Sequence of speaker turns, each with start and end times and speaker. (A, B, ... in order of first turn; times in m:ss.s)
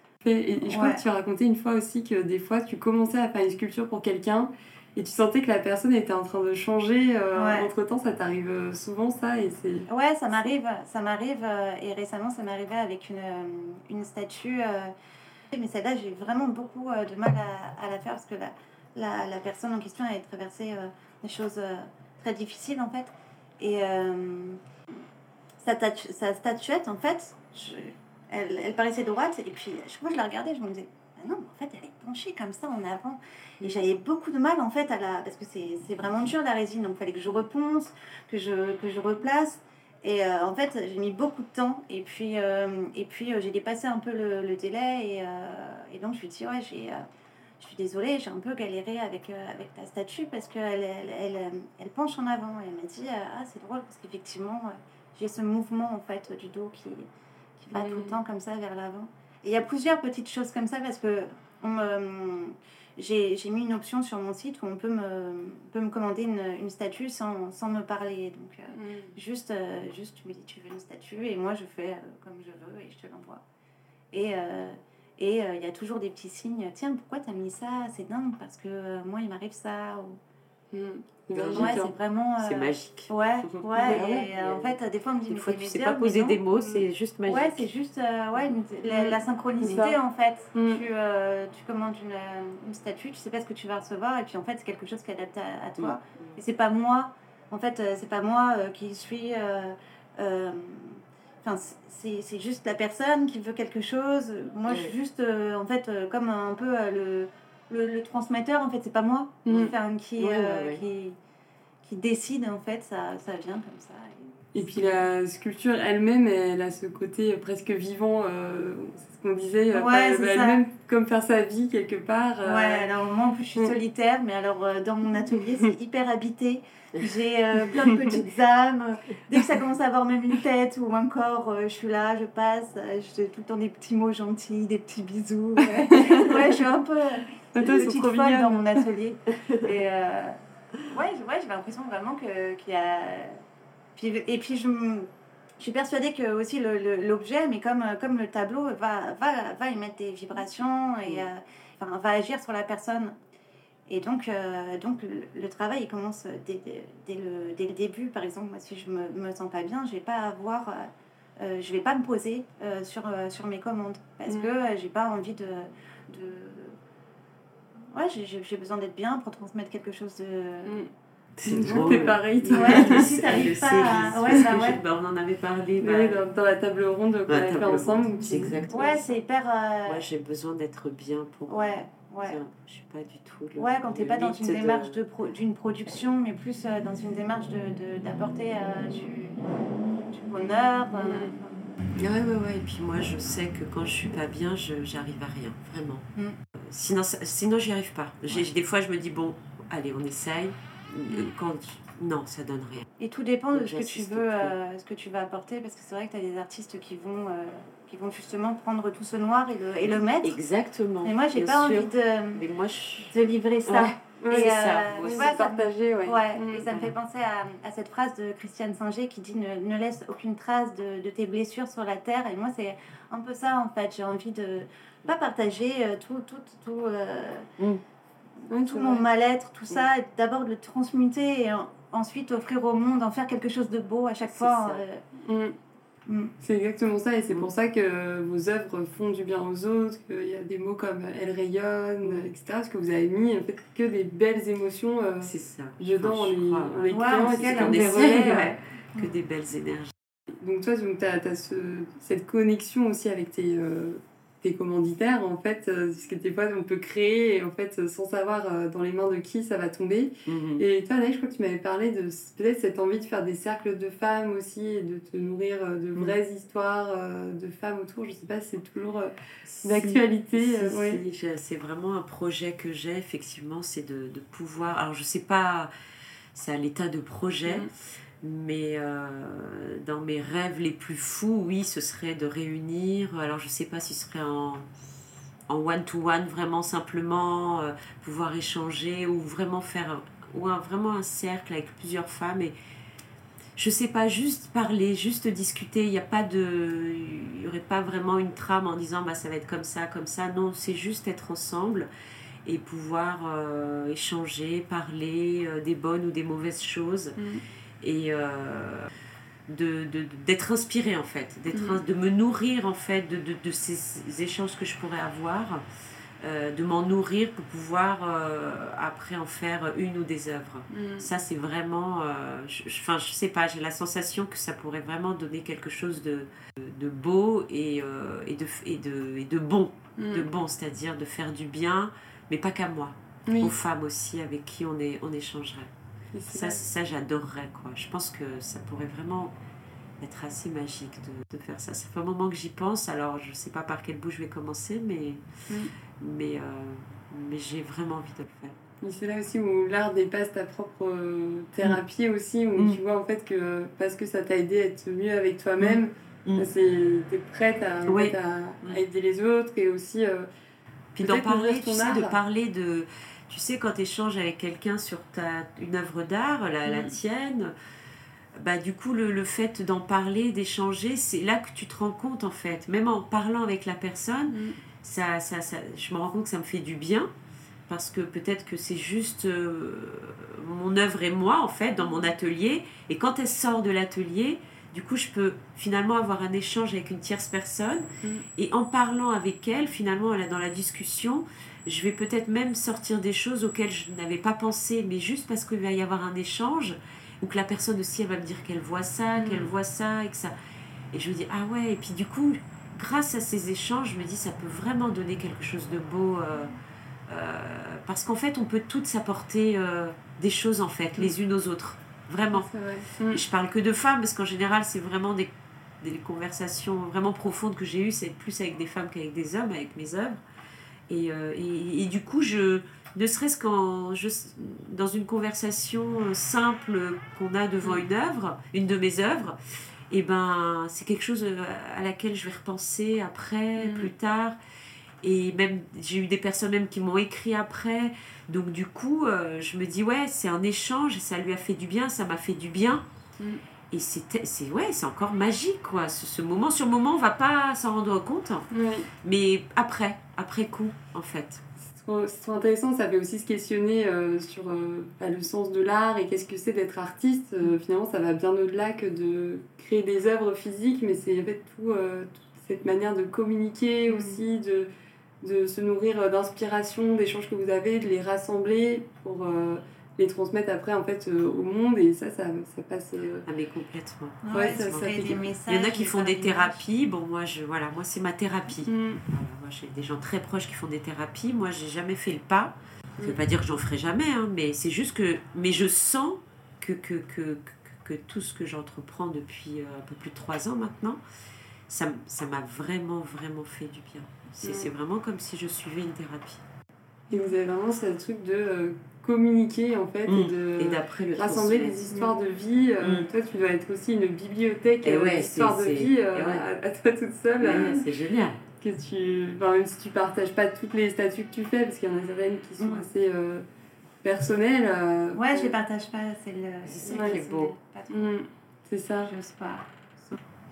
0:00.2-0:09.9 A
0:00.6-0:01.0 B
0:07.4-0:07.7 B
0:09.9-0:14.9 B
0:15.5-0:24.6 B
0:25.6-0:47.0 B
0:47.6-0:57.1 B
0:57.6-1:13.4 B
0:57.7-0:58.2 A
1:08.7-1:09.1 A
1:14.1-1:20.2 B
1:20.7-1:21.9 A
1:21.3-1:24.8 C
1:21.5-1:26.4 B
1:23.8-1:24.2 A
1:25.3-1:27.7 C
1:26.6-1:26.9 A
1:27.3-1:51.2 B
1:28.9-1:30.0 A
1:30.6-1:30.8 A
1:35.8-1:36.4 C
1:44.7-1:44.9 C
1:49.5-1:49.7 A
1:49.5-1:50.8 C
1:51.8-1:55.0 B
1:54.6-2:02.9 A
1:59.7-2:00.6 B
2:02.4-2:23.4 B
2:15.9-2:16.5 A
2:17.5-2:18.9 A
2:24.0-2:25.1 B
2:25.6-2:33.1 B
2:33.9-2:46.8 B
2:47.9-2:50.8 B
2:51.4-2:56.2 C
2:51.5-2:53.1 A
2:51.6-2:54.8 B
2:55.8-2:58.6 A
2:57.3-2:59.0 C
2:58.7-3:00.0 B
2:59.9-3:05.0 C
3:01.5-3:02.4 B
3:03.6-3:09.4 B
3:10.0-3:11.6 B
3:11.0-3:11.4 A
3:12.0-3:22.9 C
3:23.0-3:30.4 B
3:23.5-3:24.6 C
3:29.9-3:33.2 C
3:31.0-3:32.4 B
3:33.1-3:47.5 B
3:33.7-3:35.4 C
3:33.8-3:36.7 A
3:48.5-3:55.0 B
3:48.5-3:49.0 A
3:54.3-3:54.8 C
3:55.2-3:55.6 A
3:56.1-3:56.3 B
3:56.4-4:08.6 A
4:05.2-4:09.9 C
4:06.9-4:08.1 B
4:10.4-4:29.1 A
4:20.3-4:20.6 C
4:29.4-4:35.7 C
4:29.6-4:31.0 A
4:36.3-4:44.7 C
4:45.5-4:52.6 C
4:53.6-5:01.9 C
5:02.4-5:07.2 C
5:07.8-5:08.9 C
5:09.5-5:15.6 C
5:11.5-5:11.8 A
5:16.2-5:35.7 C
5:20.7-5:21.1 A
5:30.0-5:30.3 A
5:33.3-5:33.6 A
5:36.1-5:36.6 A
5:36.3-5:39.3 C
5:40.0-5:45.2 C
5:45.5-5:45.7 A
5:46.0-5:48.6 C
5:48.8-6:00.3 A
5:52.6-5:52.8 C
5:55.6-5:56.5 C
5:57.9-5:58.8 C
6:01.0-6:07.5 C
6:01.0-6:02.2 A
6:06.7-6:07.0 A
6:08.4-6:17.1 C
6:14.3-6:14.6 A
6:17.7-6:40.3 C
6:39.2-6:39.5 A
6:40.9-6:46.6 C
6:47.1-7:00.2 C
6:52.3-6:53.2 A
7:00.9-7:09.4 C
7:09.9-7:14.4 C
7:13.6-7:13.9 A
7:15.0-7:22.9 C
7:23.7-7:28.5 C
7:28.5-7:28.9 A
7:29.0-7:31.4 C
7:31.6-7:44.7 A
7:43.9-7:44.2 B
7:45.2-7:53.3 A
7:53.3-8:11.0 C
7:54.2-7:56.6 B
7:54.3-7:55.2 A
7:58.7-7:59.0 A
8:11.7-8:16.4 C
8:14.4-8:14.7 A
8:17.1-8:27.8 A
8:20.1-8:22.1 C
8:22.8-8:23.1 C
8:24.8-8:26.4 C
8:27.4-8:28.4 C
8:28.6-8:33.4 A
8:32.6-8:32.9 B
8:34.0-8:35.5 A
8:35.2-8:38.1 B
8:36.6-8:37.6 C
8:36.9-8:37.2 A
8:37.9-8:39.1 A
8:39.1-8:40.2 B